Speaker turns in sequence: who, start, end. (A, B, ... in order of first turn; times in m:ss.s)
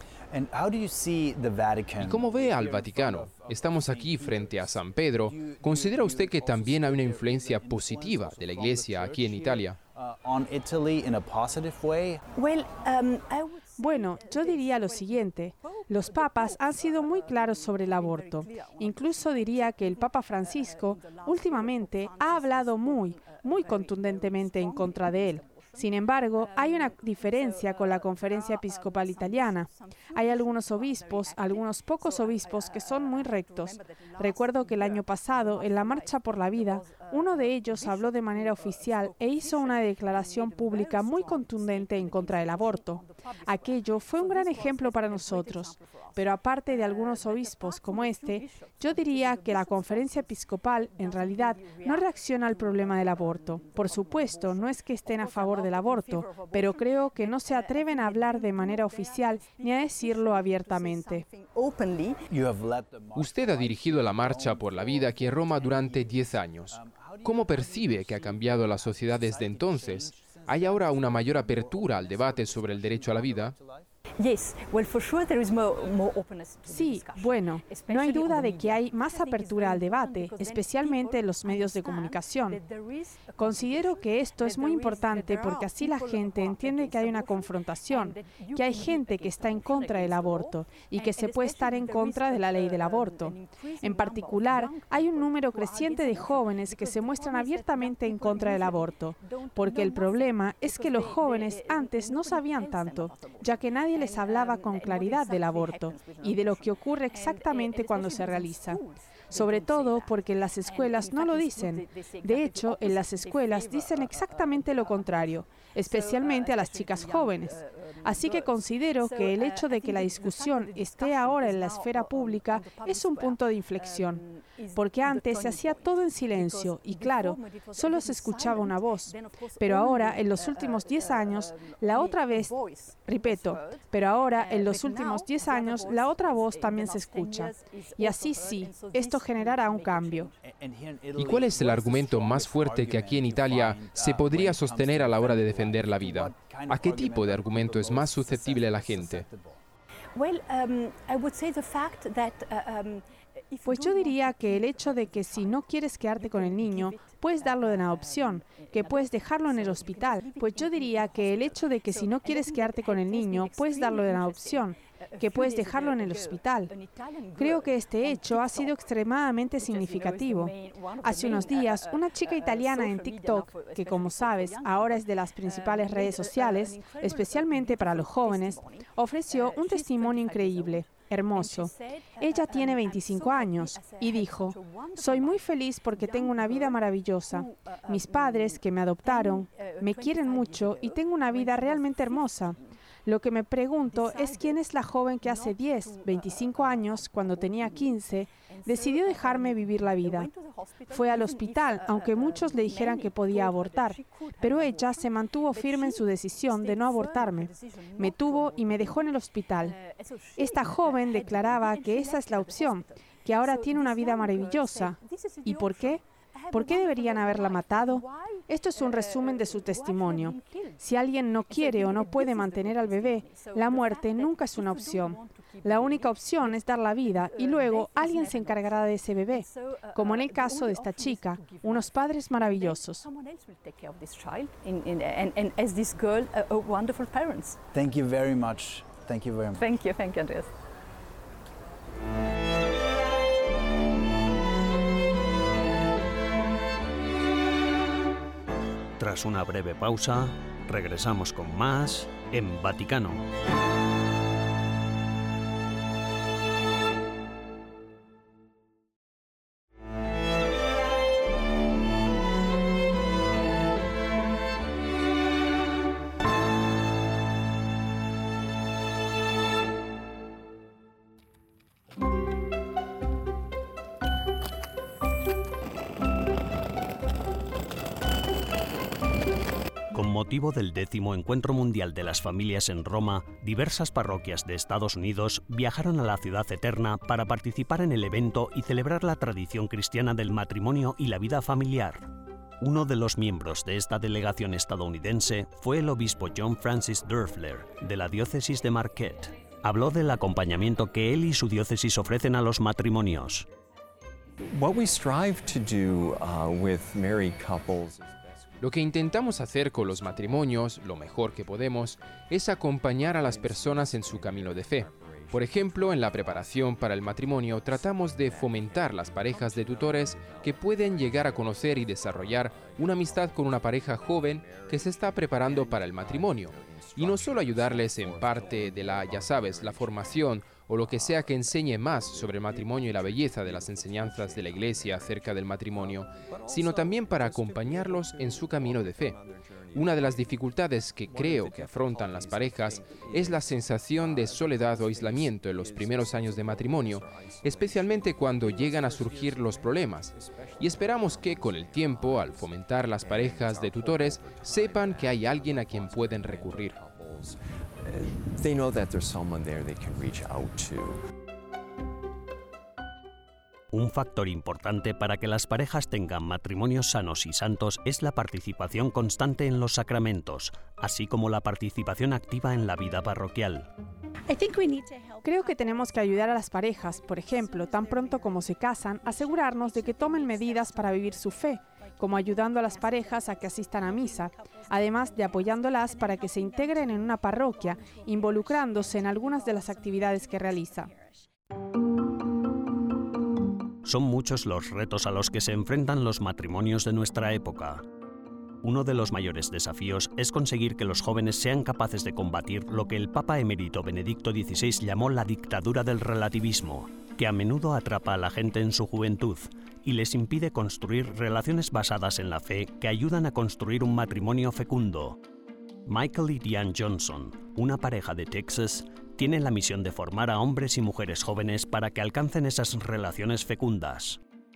0:00.3-0:12.2 A
0:02.0-0:09.8 B
0:12.3-1:02.2 C
0:13.8-1:01.2 D
1:02.3-1:13.9 A
1:03.1-1:13.6 B
1:14.2-2:20.4 C
1:16.7-1:22.6 D
1:23.4-1:48.8 D
1:49.3-2:04.2 D
2:04.7-2:12.5 D
2:13.0-2:20.3 D
2:20.4-2:29.6 A
2:21.2-2:29.3 B
2:30.1-2:48.8 C
2:33.6-2:46.7 D
2:47.4-2:50.5 D
2:49.6-3:12.7 C
2:51.0-3:20.3 D
3:13.9-3:14.6 C
3:15.2-3:40.8 C
3:20.9-3:29.8 D
3:30.4-3:53.0 D
3:41.5-3:57.6 C
3:57.7-3:59.6 A
3:59.6-4:00.5 C
4:09.0-4:13.3 E
4:39.9-5:03.5 E
5:04.5-5:08.6 F
5:08.6-5:39.2 B
5:13.3-5:16.4 F
5:18.1-5:30.2 F
5:30.8-5:35.1 F
5:36.2-5:40.2 F
5:39.7-5:56.8 B
5:41.1-6:01.0 F
6:03.7-6:13.7 E
6:15.2-6:30.9 D
6:33.8-6:37.9 E
6:38.6-6:55.2 E
6:55.8-7:04.2 E